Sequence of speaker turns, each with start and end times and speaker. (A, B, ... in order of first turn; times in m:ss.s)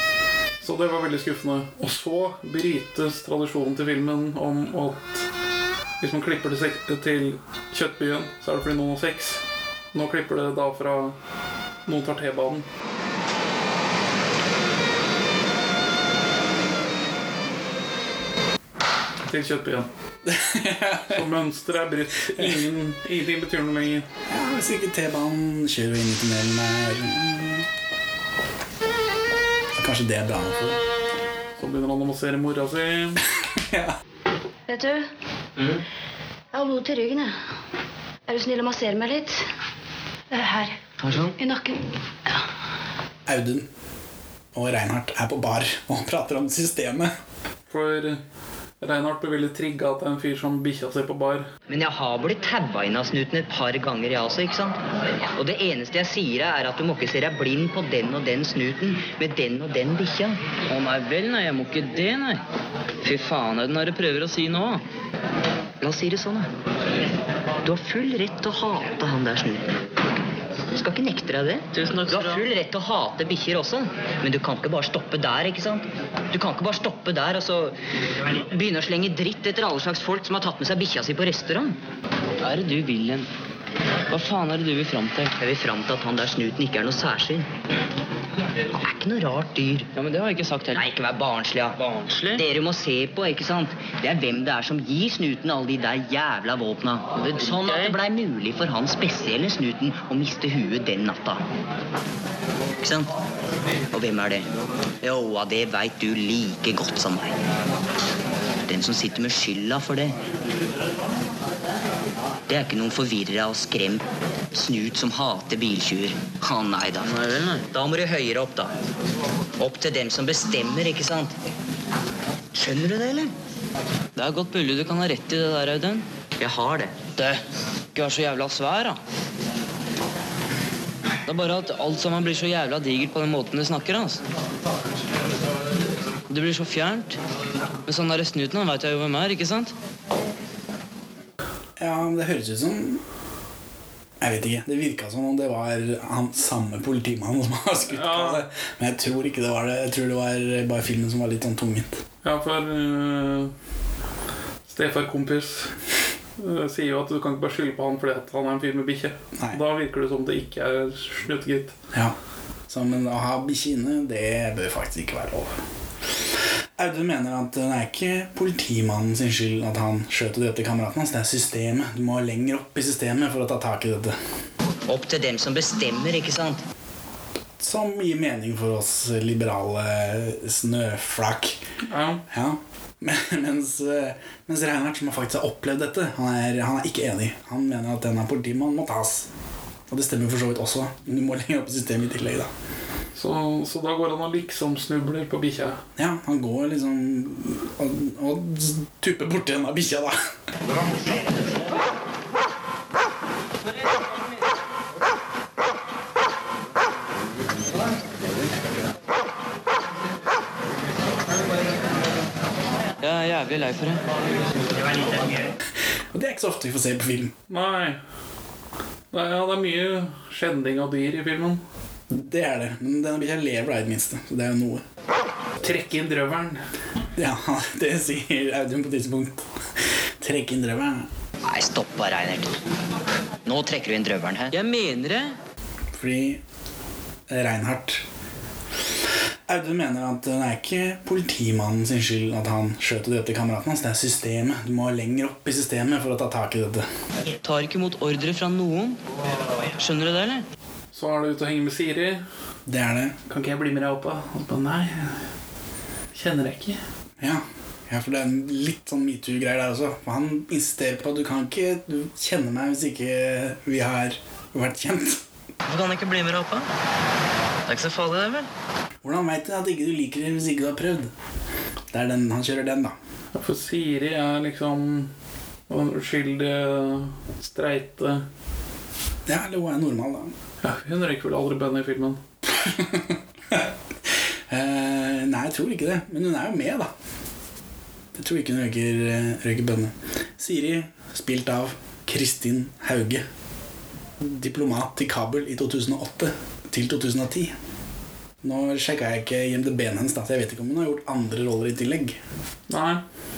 0:00.6-0:05.2 A
0:06.0-0:09.4 A
0:09.9-0:11.2 A
0:11.8-0:12.6 A
0:19.3-0:19.9 A
0:20.2-0:21.3 B
0:21.1-0:24.1 A
0:22.3-0:22.6 B
0:24.3-0:27.7 B
0:29.7-0:30.8 B
0:31.6-0:33.2 A
0:33.6-0:33.9 B
0:34.7-0:35.1 C
0:36.5-0:37.3 C
0:38.3-0:39.4 C
0:40.3-0:42.4 C
0:43.2-0:43.7 B
0:44.5-0:47.1 B
0:47.7-0:48.2 A
0:48.8-0:51.5 A
0:51.7-0:54.8 D
0:55.4-1:00.4 D
1:00.7-1:02.4 E
1:03.0-1:04.8 E
1:05.8-1:06.5 D
1:07.6-1:09.7 D
1:10.7-1:17.7 D
1:11.7-1:12.4 E
1:18.3-1:21.8 D
1:22.4-1:23.3 E
1:24.1-1:25.3 E
1:25.4-1:27.5 D
1:28.8-1:29.9 D
1:30.0-1:30.8 E
1:30.7-1:31.8 D
1:31.8-1:32.4 E
1:32.3-1:41.4 D
1:37.2-1:38.0 E
1:42.8-1:43.1 D
1:43.9-1:44.5 D
1:45.0-1:47.4 D
1:48.7-1:50.2 D
1:52.5-1:57.2 D
1:57.0-1:57.6 E
1:57.7-1:58.7 D
1:59.6-2:01.4 D
2:02.5-2:03.3 D
2:04.2-2:06.0 E
2:06.4-2:06.9 D
2:07.9-2:09.0 E
2:11.2-2:14.2 E
2:16.3-2:17.2 E
2:17.8-2:19.7 E
2:21.8-2:23.0 B
2:24.2-2:32.0 B
2:27.9-2:28.4 A
2:32.2-2:33.5 A
2:34.7-2:35.7 A
2:36.4-2:41.7 A
2:39.4-2:39.6 B
2:42.7-2:45.6 B
2:46.8-2:54.2 B
2:54.9-2:56.6 D
2:57.6-3:01.6 B
3:01.8-3:02.2 A
3:02.3-3:09.3 B
3:09.9-3:12.5 B
3:13.1-3:15.8 A
3:16.0-3:20.2 B
3:33.0-3:34.0 E
3:36.1-3:37.3 B
3:37.5-3:38.0 A
3:39.1-3:41.6 A
3:42.1-3:44.8 B
3:45.6-3:46.6 A
3:47.2-3:49.5 B
3:50.2-3:51.1 B
3:51.4-3:52.6 D
3:53.4-3:54.5 D
3:54.5-3:55.4 E
3:55.9-3:56.4 B
3:57.3-3:58.0 B
3:59.5-4:06.9 B
4:07.4-4:09.0 E
4:09.8-4:10.4 E
4:10.9-4:12.2 A
4:12.7-4:13.2 B
4:13.3-4:15.2 A
4:16.1-4:16.8 A
4:17.2-4:25.2 B
4:25.6-4:26.7 E
4:27.7-4:28.5 E
4:29.0-4:31.1 B
4:31.9-4:33.0 B
4:33.3-4:35.1 A
4:35.7-4:38.2 A
4:39.2-4:40.3 B
4:40.6-4:42.2 A
4:42.6-4:43.7 B
4:44.5-4:46.9 B
4:48.1-4:53.2 B
4:54.2-4:57.5 B
4:58.4-5:02.2 B
5:02.7-5:03.0 A